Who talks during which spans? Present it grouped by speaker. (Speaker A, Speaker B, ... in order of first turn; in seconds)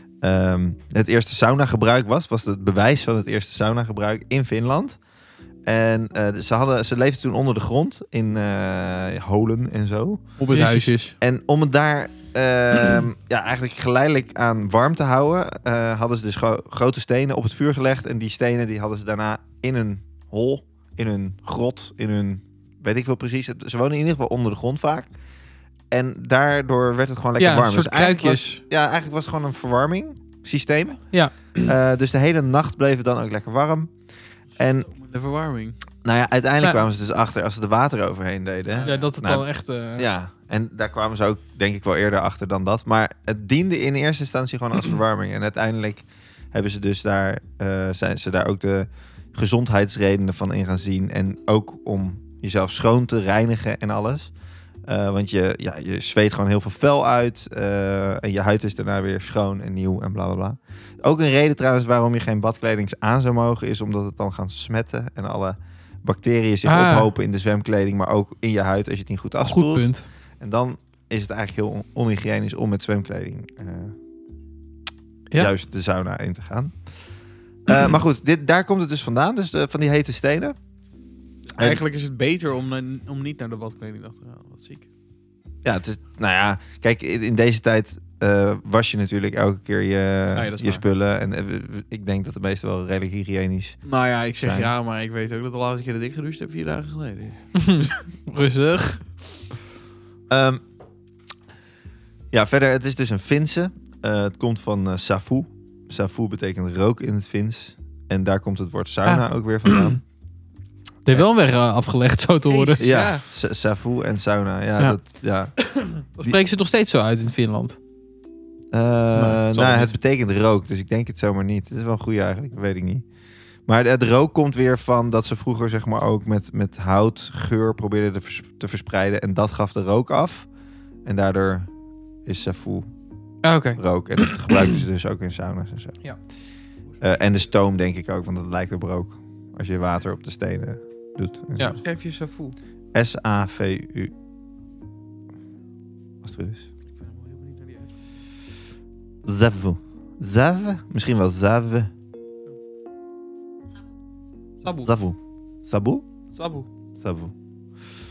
Speaker A: 0.2-5.0, 5.6-10.3, 11.2-25.1, 25.9-33.9, 34.6-34.9, 36.0-54.3, 54.9-69.9, 70.4-73.9, 75.3-76.7, 77.7-80.5, 81.6-81.8, 85.6-93.8, 94.4-94.7, 100.3-100.6, 102.3-110.0, 112.8-116.4, 118.7-123.0, 123.7-130.5, 131.0-131.7, 132.2-132.9, 133.8-136.0, 137.0-141.8, 142.9-144.1, 146.2-146.7, 149.2-151.9, 154.8-156.0, 157.0-157.3
Speaker B: 10.4-11.1, 34.9-35.8, 38.7-39.0, 81.5-84.8, 90.3-90.8, 93.8-97.4, 112.5-113.2, 141.8-142.6, 147.0-147.9, 154.6-154.9, 156.3-156.7
Speaker C: 10.5-10.9, 27.4-28.6, 31.1-31.7, 38.8-40.1, 66.6-67.1, 69.4-70.0, 97.5-99.2, 109.0-110.0, 111.0-112.8, 115.6-117.8, 119.1-119.9, 133.4-134.8